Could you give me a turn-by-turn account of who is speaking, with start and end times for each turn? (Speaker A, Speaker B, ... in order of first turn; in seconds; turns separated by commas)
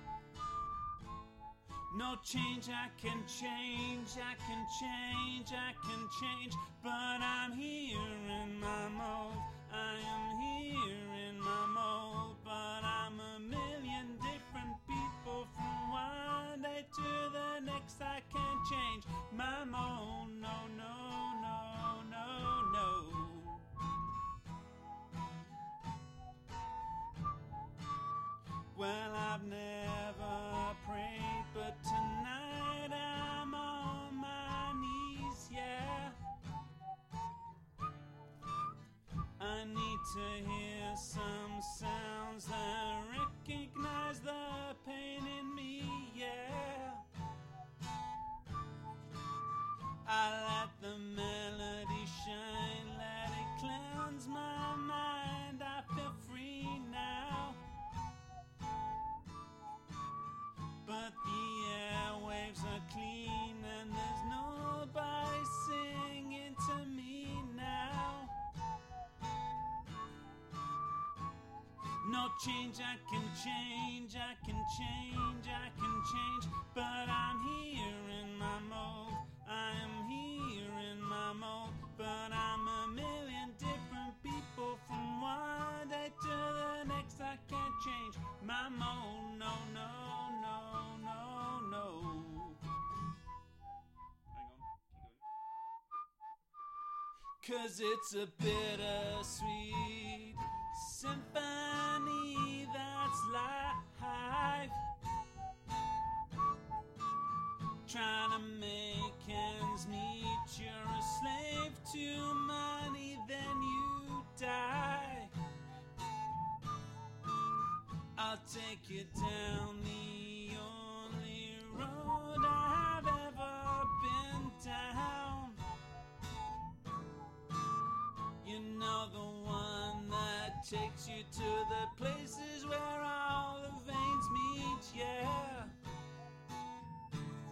Speaker A: 1.9-23.7, Speaker A: 28.7-36.2, Speaker A: 39.4-47.0, Speaker A: 50.0-57.6, Speaker A: 60.8-68.3, Speaker A: 72.0-92.6, Speaker A: 94.3-95.2, Speaker A: 97.4-104.8, Speaker A: 107.9-115.3, Speaker A: 118.2-125.6, Speaker A: 128.4-135.7